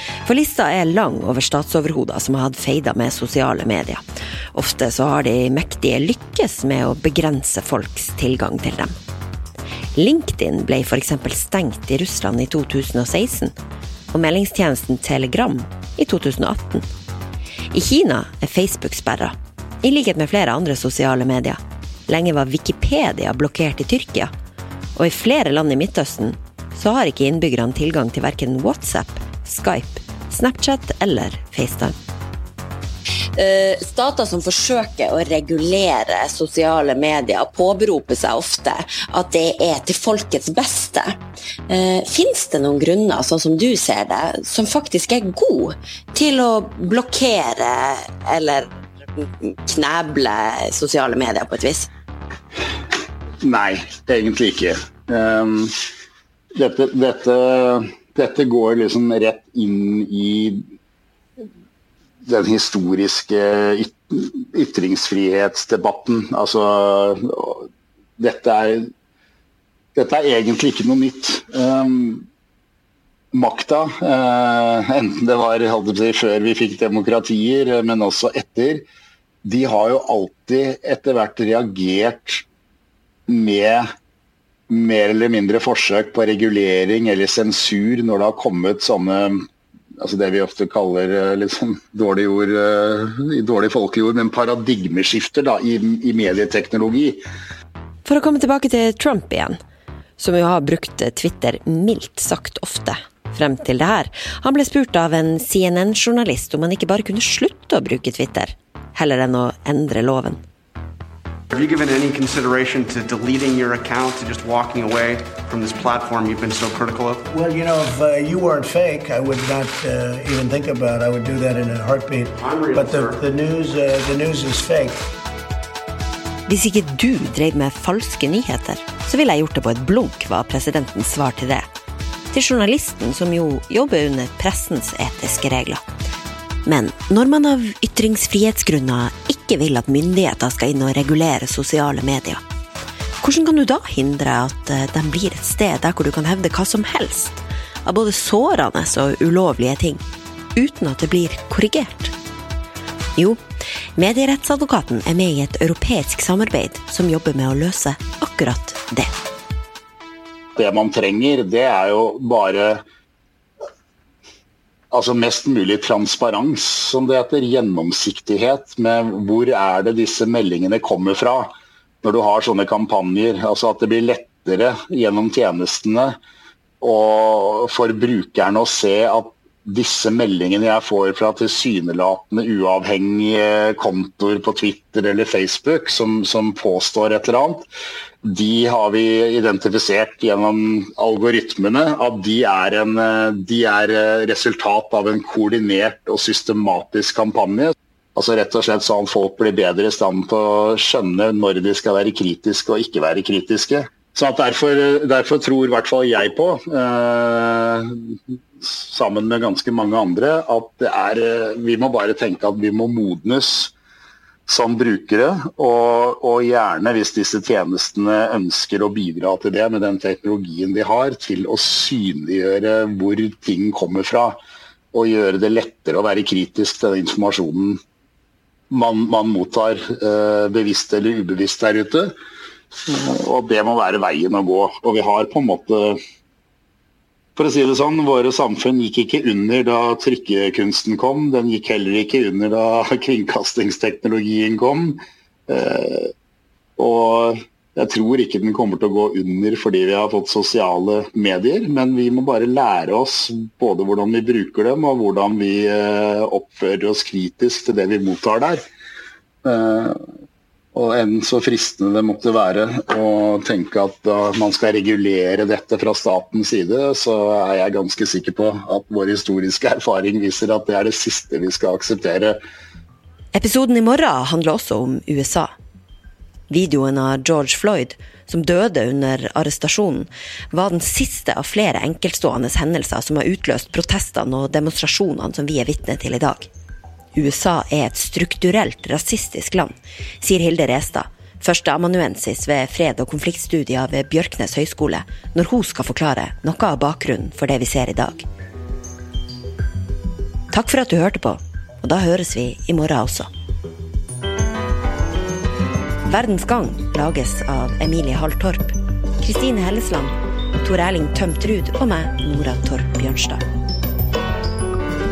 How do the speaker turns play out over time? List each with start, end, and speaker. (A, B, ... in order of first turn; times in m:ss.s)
0:00.2-0:04.0 A
0:04.5-0:08.9 A
0:10.0-0:13.5 A
0:14.1-0:16.8 A
0:17.7-0:24.3 A
0:25.0-0:31.9 A
0:33.4-0:37.3 A
0:33.8-0:38.3 B
0:38.2-0:41.0 A
0:38.9-0:41.0 B
0:41.7-0:48.6 B
0:46.8-0:47.6 A
0:49.7-0:50.1 B
0:49.8-0:51.7 A
0:53.4-0:55.7 C
0:56.6-1:00.6 C
1:02.2-1:07.7 C
1:08.2-1:08.9 C
1:10.0-1:12.2 C
1:13.3-1:18.8 C
1:19.4-1:22.4 C
1:23.3-1:23.8 C
1:24.7-1:29.4 C
1:30.0-1:37.2 C
1:38.0-1:39.6 A
1:40.2-1:50.4 A
1:51.5-1:57.2 D
1:57.3-2:05.1 E
2:02.4-2:03.2 D
2:06.5-2:11.6 A
2:12.3-2:15.8 A
2:16.6-2:22.4 A
2:23.2-2:30.0 A
2:30.5-2:32.1 A
2:33.2-2:33.4 A
2:34.0-2:39.1 A
2:40.6-2:42.8 C
2:44.9-2:56.1 C
2:56.8-3:07.7 C
3:08.2-3:33.7 C
3:34.5-3:44.4 C
3:44.9-3:47.8 C
3:48.7-3:52.1 C
3:52.9-3:56.0 C
3:57.4-4:06.1 C
4:06.8-4:18.6 C
4:19.4-4:20.0 C
4:20.8-4:32.4 C
4:33.3-4:35.5 A
4:36.5-4:46.5 A
4:47.1-4:58.2 A
5:00.5-5:03.3 A
5:06.0-5:13.4 A